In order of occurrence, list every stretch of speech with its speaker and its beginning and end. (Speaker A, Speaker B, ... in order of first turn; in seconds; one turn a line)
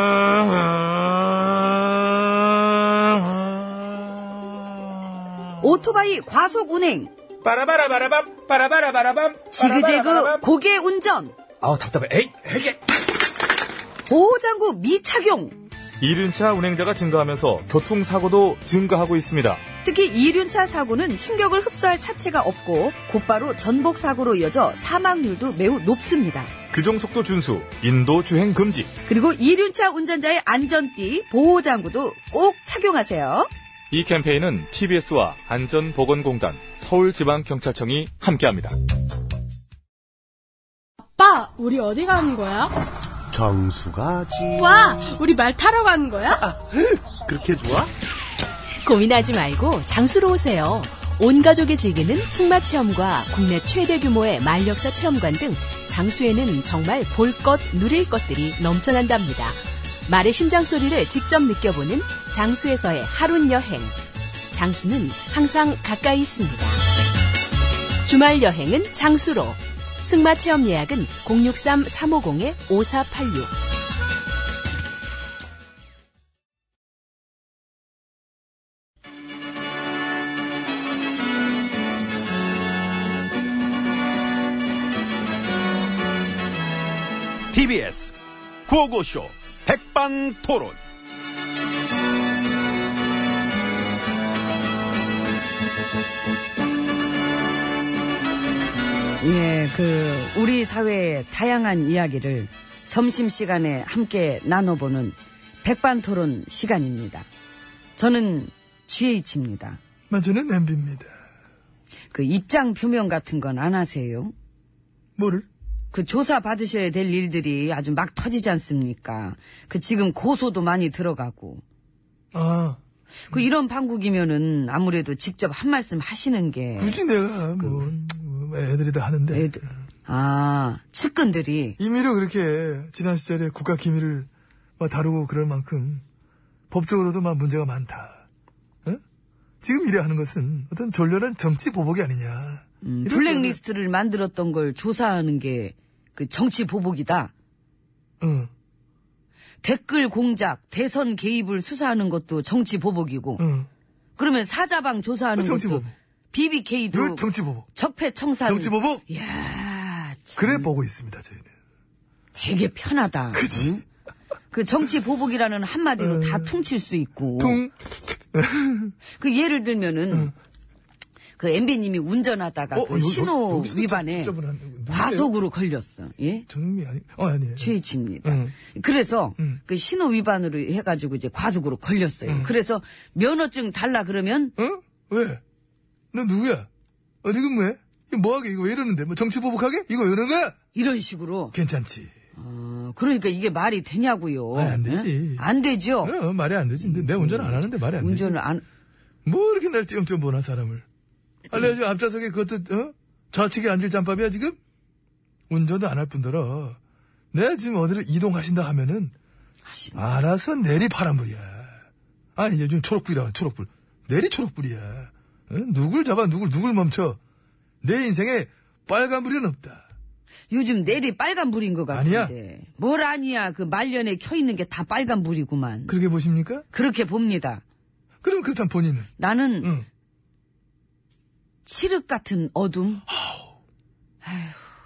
Speaker A: 0.3-0.6
Speaker B: 5.6-7.1
Speaker C: 7.4-10.4
Speaker B: 9.5-11.3
Speaker C: 11.6-12.8
Speaker B: 14.1-15.6
Speaker A: 16.0-19.6
Speaker B: 19.8-26.5
Speaker A: 26.7-28.9
Speaker B: 29.1-33.5
Speaker A: 33.9-38.8
Speaker D: 41.2-42.7
Speaker E: 43.3-44.6
Speaker D: 44.5-46.4
Speaker E: 46.7-47.9
Speaker F: 49.0-50.8
Speaker F: 51.4-59.5
Speaker F: 60.1-63.8
Speaker F: 64.6-66.6
Speaker F: 68.1-69.5
Speaker F: 70.0-73.3
Speaker E: 87.5-88.2
Speaker E: 88.7-90.8
Speaker B: 99.2-107.3
Speaker B: 108.0-109.8
Speaker G: 110.1-111.1
Speaker B: 112.1-114.3
Speaker G: 115.2-115.5
Speaker B: 115.9-121.6
Speaker G: 122.3-122.8
Speaker B: 123.3-127.0
Speaker G: 126.8-129.5
Speaker B: 127.6-127.9
Speaker B: 129.3-131.8
Speaker G: 131.8-134.3
Speaker G: 134.8-136.0
Speaker G: 136.7-138.2
Speaker G: 139.6-143.6
Speaker B: 142.8-147.3
Speaker G: 148.2-148.5
Speaker B: 149.6-153.4
Speaker G: 153.4-153.7
Speaker B: 154.2-160.7
Speaker G: 155.4-155.9
Speaker G: 156.9-157.7
Speaker G: 158.4-159.0
Speaker G: 160.4-161.5
Speaker B: 162.3-163.8
Speaker G: 163.3-163.7
Speaker B: 164.5-167.6
Speaker G: 166.0-166.5
Speaker G: 167.4-167.7
Speaker G: 168.3-168.9
Speaker B: 169.1-170.3
Speaker B: 171.4-174.3
Speaker G: 172.7-175.3
Speaker B: 174.9-176.5
Speaker G: 176.5-177.7
Speaker B: 177.6-184.5
Speaker G: 178.2-178.5
Speaker G: 182.2-182.5
Speaker G: 184.6-185.4
Speaker G: 186.1-186.7
Speaker G: 187.2-190.6
Speaker B: 190.7-191.5
Speaker G: 191.5-192.1
Speaker B: 192.4-196.1
Speaker G: 194.5-195.4
Speaker G: 196.0-198.3
Speaker B: 196.8-198.6
Speaker G: 199.2-200.8
Speaker G: 201.5-204.6
Speaker G: 205.5-206.8
Speaker G: 207.3-209.1
Speaker B: 209.7-210.0
Speaker G: 209.9-211.8
Speaker G: 212.3-217.2
Speaker G: 217.8-219.8
Speaker B: 220.5-225.9
Speaker G: 221.9-222.3
Speaker G: 225.9-226.6
Speaker B: 226.7-227.6
Speaker G: 228.2-229.1
Speaker B: 229.2-229.7
Speaker B: 231.6-233.0
Speaker G: 233.1-233.4
Speaker B: 234.2-234.6